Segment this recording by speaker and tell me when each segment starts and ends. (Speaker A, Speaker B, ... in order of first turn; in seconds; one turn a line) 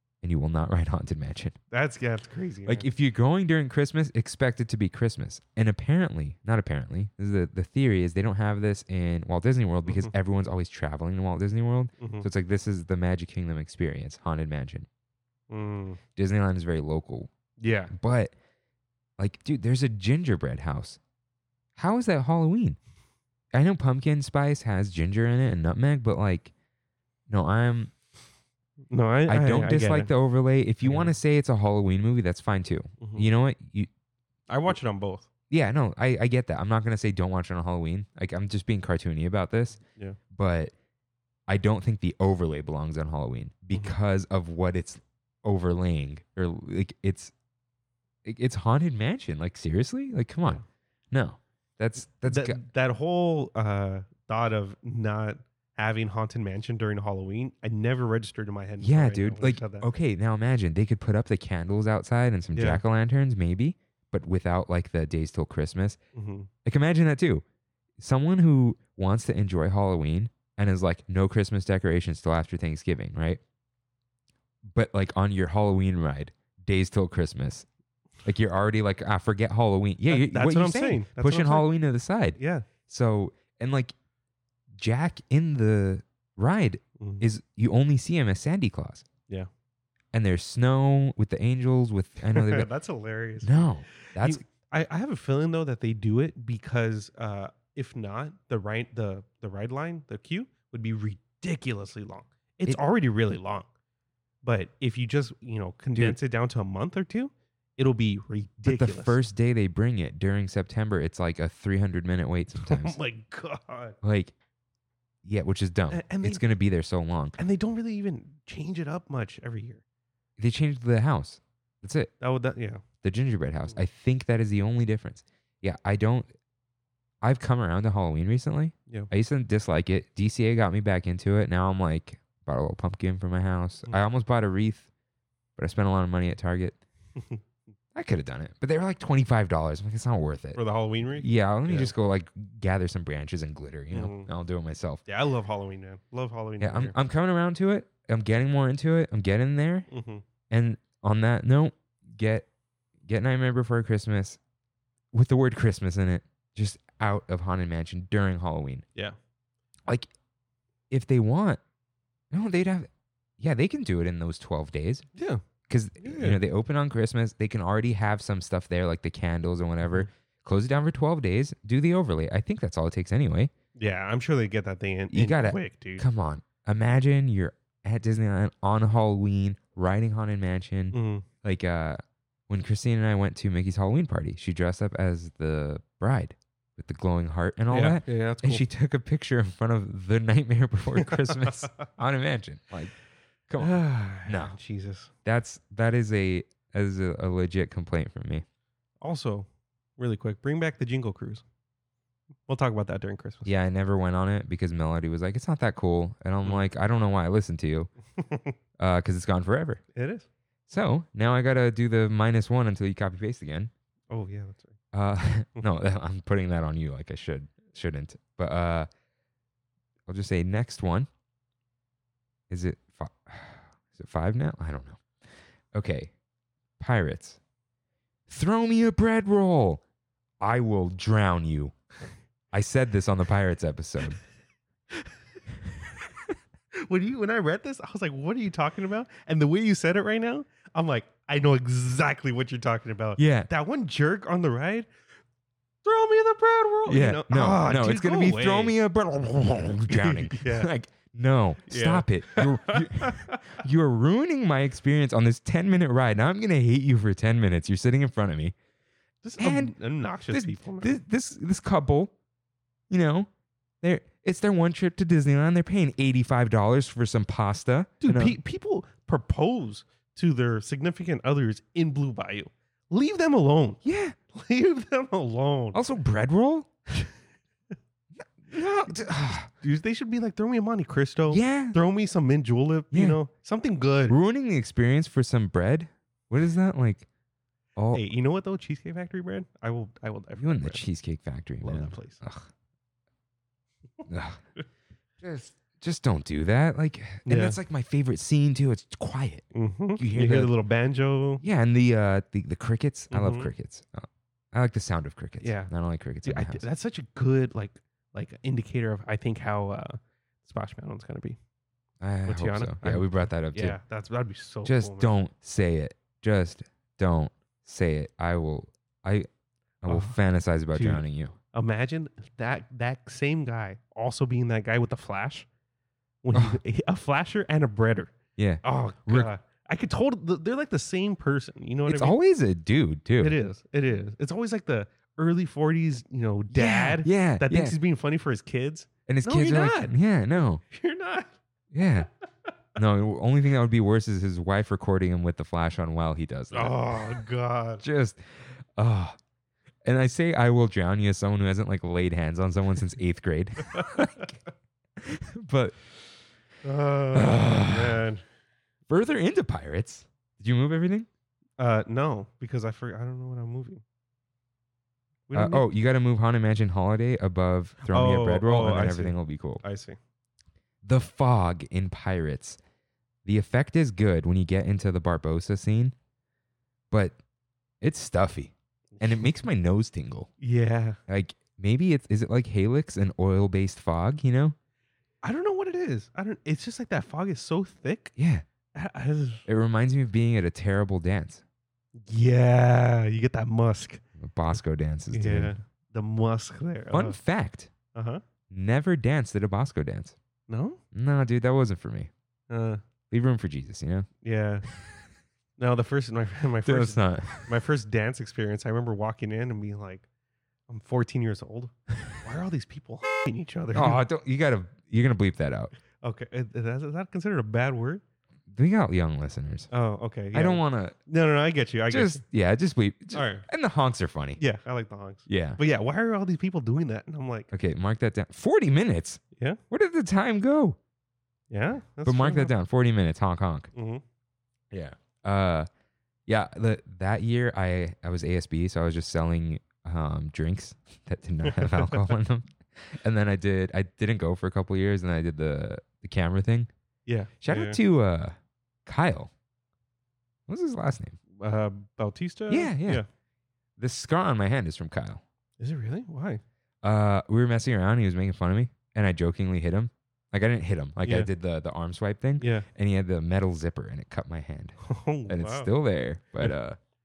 Speaker A: 0.2-1.6
Speaker B: 1.7-2.9
Speaker A: 2.7-14.9
Speaker B: 12.0-12.3
Speaker B: 15.5-16.0
Speaker A: 16.1-17.3
Speaker B: 17.6-17.9
Speaker A: 17.9-18.3
Speaker A: 19.2-21.0
Speaker A: 21.8-22.8
Speaker A: 23.5-26.5
Speaker A: 27.3-27.9
Speaker B: 28.9-30.1
Speaker A: 29.3-33.9
Speaker B: 30.8-31.1
Speaker B: 33.0-33.3
Speaker B: 34.5-35.3
Speaker A: 35.5-39.8
Speaker A: 40.3-40.7
Speaker A: 41.5-47.3
Speaker A: 48.2-50.6
Speaker A: 51.1-52.6
Speaker B: 52.3-59.9
Speaker A: 58.8-66.0
Speaker B: 62.5-62.8
Speaker B: 66.2-66.5
Speaker A: 66.6-67.4
Speaker A: 68.0-73.4
Speaker A: 74.7-77.7
Speaker A: 78.2-83.9
Speaker B: 80.1-81.7
Speaker B: 82.4-82.7
Speaker A: 84.8-89.0
Speaker B: 87.0-87.2
Speaker A: 90.1-92.7
Speaker B: 92.3-103.7
Speaker A: 93.4-94.4
Speaker B: 104.4-109.2
Speaker A: 108.7-113.0
Speaker B: 112.6-114.0
Speaker A: 114.0-114.3
Speaker A: 115.2-117.4
Speaker B: 115.9-116.4
Speaker B: 117.4-119.8
Speaker A: 120.4-122.1
Speaker B: 122.2-122.8
Speaker A: 123.0-126.3
Speaker A: 127.2-134.9
Speaker A: 135.6-136.8
Speaker A: 137.9-140.6
Speaker B: 140.6-141.9
Speaker A: 141.2-145.0
Speaker B: 143.9-144.3
Speaker B: 145.1-146.9
Speaker A: 146.6-149.9
Speaker B: 149.9-150.2
Speaker A: 150.5-152.5
Speaker A: 153.1-154.4
Speaker A: 155.1-158.8
Speaker A: 160.9-161.6
Speaker A: 162.3-165.1
Speaker B: 165.2-165.4
Speaker A: 165.7-173.5
Speaker B: 166.0-166.4
Speaker B: 173.8-176.0
Speaker A: 175.1-192.9
Speaker B: 180.9-181.3
Speaker B: 187.7-188.7
Speaker B: 191.0-191.7
Speaker A: 193.5-194.6
Speaker B: 193.6-195.1
Speaker A: 195.2-198.4
Speaker B: 199.0-199.5
Speaker B: 200.0-201.4
Speaker B: 202.5-203.5
Speaker A: 203.4-207.9
Speaker B: 208.3-208.5
Speaker A: 208.8-209.8
Speaker B: 209.9-210.3
Speaker A: 210.7-213.7
Speaker B: 214.1-214.7
Speaker A: 214.9-218.9
Speaker A: 220.1-221.1
Speaker A: 222.5-225.0
Speaker A: 225.7-226.1
Speaker A: 226.8-227.4
Speaker A: 228.3-229.8
Speaker A: 230.4-231.8
Speaker A: 232.5-234.2
Speaker B: 236.7-244.9
Speaker A: 243.2-243.5
Speaker B: 245.8-248.8
Speaker A: 246.9-258.5
Speaker B: 249.9-250.7
Speaker B: 251.7-253.6
Speaker B: 259.2-261.0
Speaker A: 259.4-259.7
Speaker A: 260.3-262.1
Speaker A: 262.9-263.3
Speaker A: 263.8-268.4
Speaker B: 268.0-273.8
Speaker A: 273.8-274.2
Speaker B: 274.3-275.8
Speaker A: 275.7-276.7
Speaker A: 278.5-279.5
Speaker B: 279.5-284.2
Speaker A: 281.3-281.8
Speaker A: 282.9-283.2
Speaker A: 284.1-287.1
Speaker A: 287.8-288.0
Speaker B: 287.9-290.8
Speaker A: 290.4-292.5
Speaker B: 291.6-292.2
Speaker A: 294.1-294.4
Speaker A: 295.2-299.4
Speaker B: 297.3-297.6
Speaker B: 299.5-301.4
Speaker A: 300.0-300.5
Speaker A: 301.4-306.6
Speaker B: 303.1-303.5
Speaker B: 305.4-305.7
Speaker B: 306.3-311.4
Speaker A: 312.0-313.8
Speaker B: 312.3-315.1
Speaker A: 314.6-319.3
Speaker A: 319.8-321.4
Speaker B: 319.9-320.1
Speaker B: 320.7-325.5
Speaker B: 326.2-328.1
Speaker A: 326.3-326.6
Speaker A: 328.4-329.3
Speaker B: 328.6-332.2
Speaker A: 331.9-333.4
Speaker B: 333.2-340.0
Speaker A: 336.5-337.8
Speaker A: 339.1-340.6
Speaker B: 340.6-341.3
Speaker A: 341.7-342.1
Speaker A: 342.8-346.9
Speaker B: 346.5-347.8
Speaker A: 347.8-349.2
Speaker A: 349.9-354.3
Speaker B: 353.7-354.2
Speaker A: 355.0-355.8
Speaker B: 356.6-358.2
Speaker A: 357.1-358.0
Speaker A: 358.9-361.1
Speaker B: 361.6-363.8
Speaker B: 365.3-365.6
Speaker A: 365.3-369.6
Speaker B: 367.9-370.0
Speaker A: 370.8-372.6
Speaker A: 373.2-375.9
Speaker A: 376.9-377.2
Speaker A: 377.8-380.3
Speaker B: 379.0-379.3
Speaker B: 380.4-381.0
Speaker A: 381.1-384.6
Speaker B: 385.2-388.1
Speaker A: 388.2-388.4
Speaker B: 388.7-389.4
Speaker A: 389.5-391.4
Speaker B: 392.1-394.0
Speaker A: 394.2-395.6
Speaker B: 395.1-397.2
Speaker A: 396.9-397.7
Speaker B: 397.9-398.2
Speaker A: 398.5-400.2
Speaker B: 400.5-400.8
Speaker A: 400.9-402.1
Speaker B: 402.5-402.8
Speaker A: 403.1-404.1
Speaker B: 404.2-404.7
Speaker B: 405.6-410.0
Speaker A: 406.6-407.5
Speaker B: 410.7-414.0
Speaker A: 413.7-415.7
Speaker B: 416.0-418.0
Speaker A: 418.5-419.7
Speaker B: 419.7-422.2
Speaker A: 420.3-421.0
Speaker A: 421.9-424.4
Speaker B: 423.1-423.5
Speaker B: 424.4-427.5
Speaker A: 425.3-425.6
Speaker A: 427.5-430.8
Speaker B: 431.5-432.5
Speaker A: 432.1-433.7
Speaker B: 433.7-434.0
Speaker A: 434.7-435.7
Speaker A: 436.3-446.7
Speaker B: 441.4-442.1
Speaker B: 447.1-447.8
Speaker A: 447.4-449.3
Speaker A: 450.5-451.2
Speaker B: 451.4-453.1
Speaker A: 452.5-453.0
Speaker A: 453.8-455.2
Speaker B: 455.6-456.4
Speaker A: 456.8-464.8
Speaker B: 462.4-462.7
Speaker B: 464.8-465.7
Speaker A: 465.3-466.8